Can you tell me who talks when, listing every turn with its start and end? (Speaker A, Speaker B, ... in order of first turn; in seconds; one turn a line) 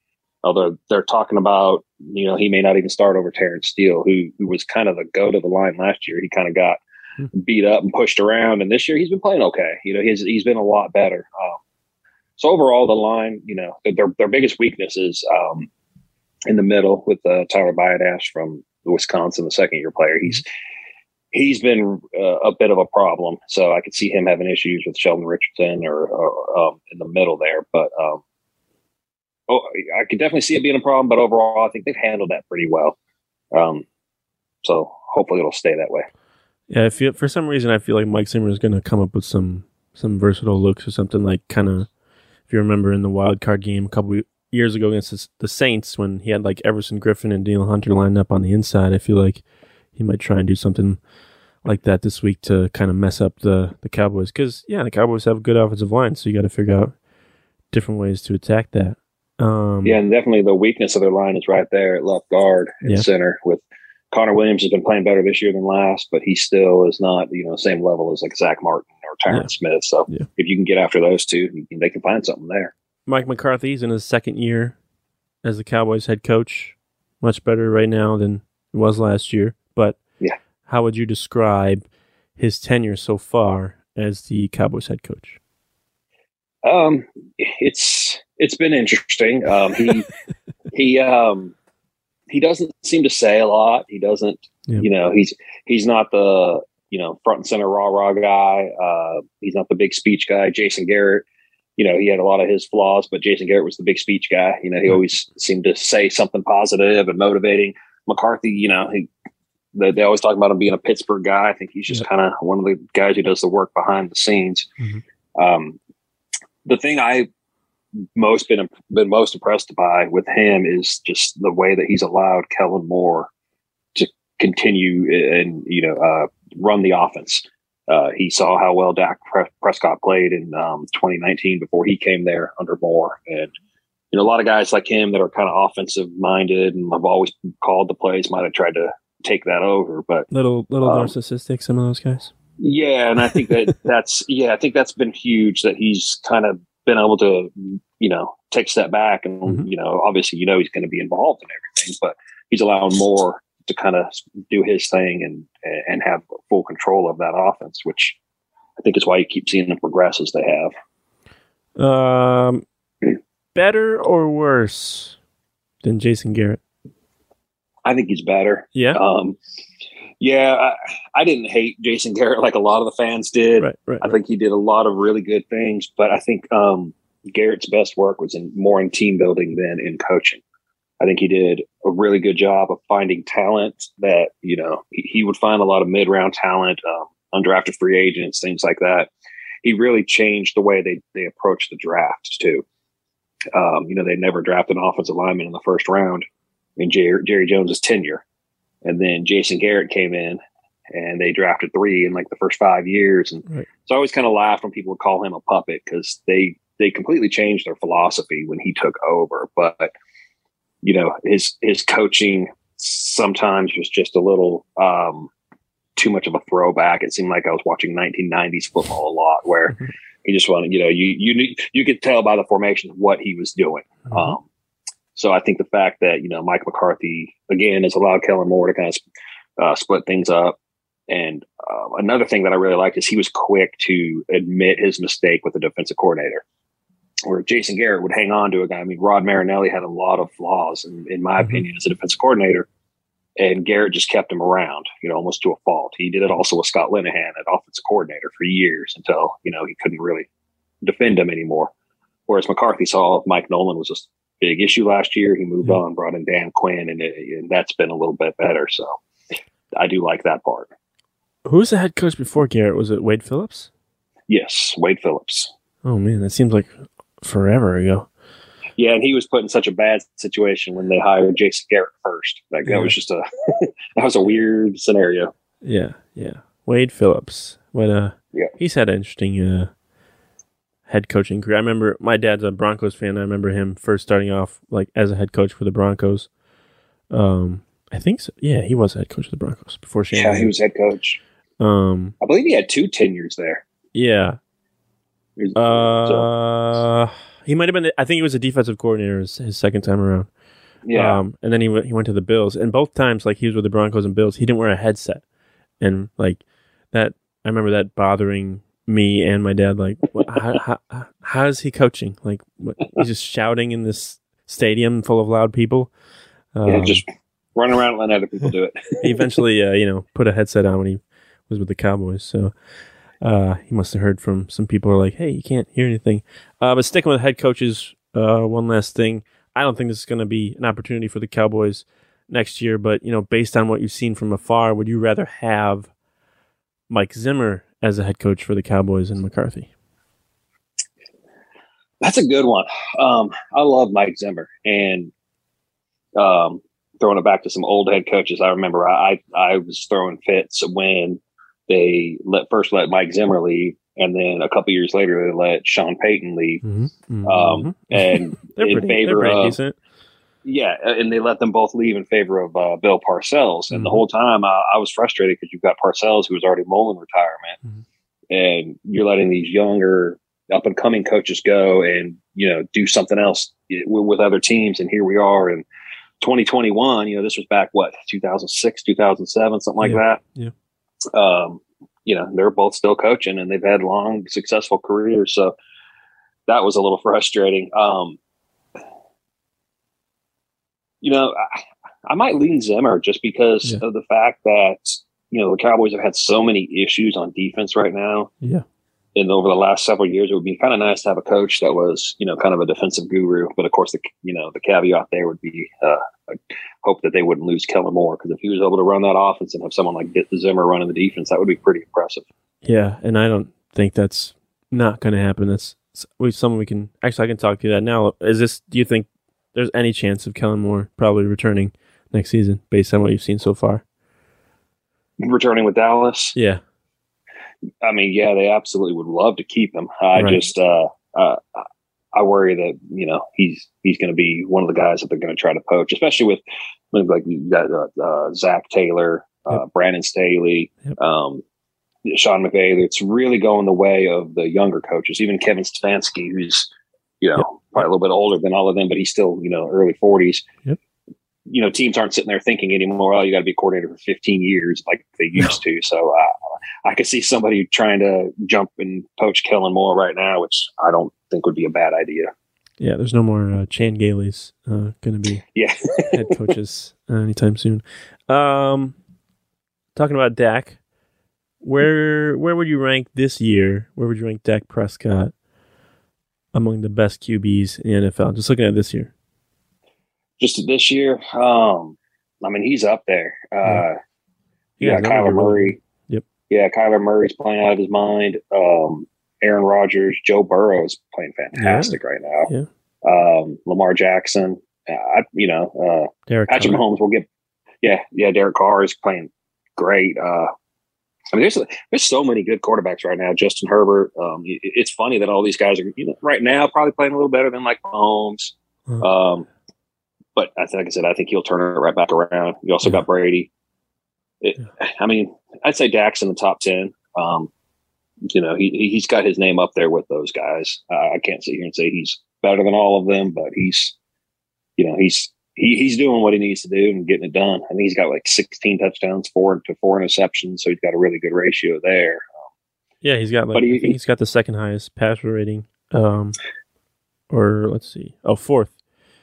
Speaker A: 0.4-6.8
Speaker A: 7.3-11.6
Speaker A: 12.4-15.7
Speaker A: 16.5-20.4
Speaker A: 21.3-28.2
Speaker A: 29.5-33.0
Speaker A: 33.5-33.9
Speaker A: 34.6-36.1
Speaker B: 36.7-41.9
Speaker B: 42.5-49.4
Speaker B: 50.0-51.0
Speaker B: 51.6-56.9
Speaker B: 57.7-60.0
Speaker A: 59.8-72.7
Speaker B: 73.1-74.8
Speaker B: 75.4-80.0
Speaker B: 80.7-85.4
Speaker A: 86.7-90.1
Speaker A: 90.7-91.5
Speaker A: 92.3-101.2
Speaker A: 101.8-109.1
Speaker A: 109.8-114.7
Speaker A: 115.4-115.8
Speaker A: 116.7-117.3
Speaker A: 118.2-123.3
Speaker A: 124.0-133.5
Speaker A: 134.1-140.3
Speaker B: 140.3-142.3
Speaker A: 140.8-141.1
Speaker A: 142.6-158.2
Speaker A: 158.8-160.7
Speaker B: 161.8-162.7
Speaker B: 163.6-165.2
Speaker B: 165.8-166.6
Speaker A: 167.8-169.4
Speaker B: 168.8-169.0
Speaker A: 170.2-180.4
Speaker B: 173.6-174.1
Speaker A: 181.0-189.1
Speaker A: 189.6-192.7
Speaker A: 193.5-196.2
Speaker A: 196.8-198.2
Speaker A: 198.8-200.4
Speaker A: 200.9-209.9
Speaker A: 210.8-215.3
Speaker A: 216.0-224.4
Speaker B: 224.1-224.4
Speaker A: 225.2-229.0
Speaker A: 229.6-230.6
Speaker A: 231.1-236.4
Speaker A: 237.3-242.7
Speaker A: 243.4-250.3
Speaker A: 250.8-251.7
Speaker A: 252.3-259.0
Speaker A: 259.8-260.7
Speaker B: 261.5-263.7
Speaker A: 264.3-265.5
Speaker B: 265.9-268.1
Speaker A: 268.8-275.3
Speaker B: 272.7-272.9
Speaker B: 275.6-279.7
Speaker B: 280.9-286.3
Speaker B: 287.1-290.5
Speaker A: 290.1-291.2
Speaker B: 291.6-292.1
Speaker A: 292.2-293.6
Speaker B: 293.9-294.4
Speaker A: 295.4-296.3
Speaker B: 295.6-300.3
Speaker A: 300.9-301.2
Speaker B: 300.9-305.2
Speaker B: 305.8-315.9
Speaker B: 316.6-317.0
Speaker A: 316.7-319.1
Speaker B: 319.0-322.5
Speaker B: 323.2-335.9
Speaker B: 336.9-339.7
Speaker A: 342.0-345.1
Speaker A: 346.2-356.6
Speaker B: 356.6-359.8
Speaker A: 357.2-359.6
Speaker A: 360.4-367.6
Speaker B: 363.7-364.0
Speaker A: 368.3-375.6
Speaker A: 376.2-380.2
Speaker B: 379.8-380.5
Speaker A: 381.1-385.5
Speaker A: 386.5-388.2
Speaker A: 391.0-398.3
Speaker A: 399.1-412.2
Speaker B: 412.6-423.8
Speaker A: 425.2-426.4
Speaker B: 426.4-426.6
Speaker A: 427.8-441.4
Speaker B: 430.2-430.5
Speaker A: 442.1-446.7
Speaker A: 447.2-450.4
Speaker A: 451.5-456.3
Speaker A: 456.9-462.3
Speaker B: 462.8-465.4
Speaker A: 465.5-466.2
Speaker B: 466.1-469.0
Speaker B: 469.9-470.8
Speaker B: 471.6-475.3
Speaker B: 476.5-479.1
Speaker A: 480.4-484.0
Speaker B: 484.8-486.2
Speaker A: 484.8-485.8
Speaker A: 486.5-492.5
Speaker B: 491.6-492.0
Speaker A: 493.0-497.3
Speaker B: 496.3-496.8
Speaker A: 497.8-500.5
Speaker A: 501.3-509.5
Speaker A: 510.4-513.5
Speaker A: 514.4-517.5
Speaker A: 518.3-523.9
Speaker A: 524.8-532.5
Speaker B: 533.0-536.4
Speaker A: 533.5-534.0
Speaker B: 537.3-538.8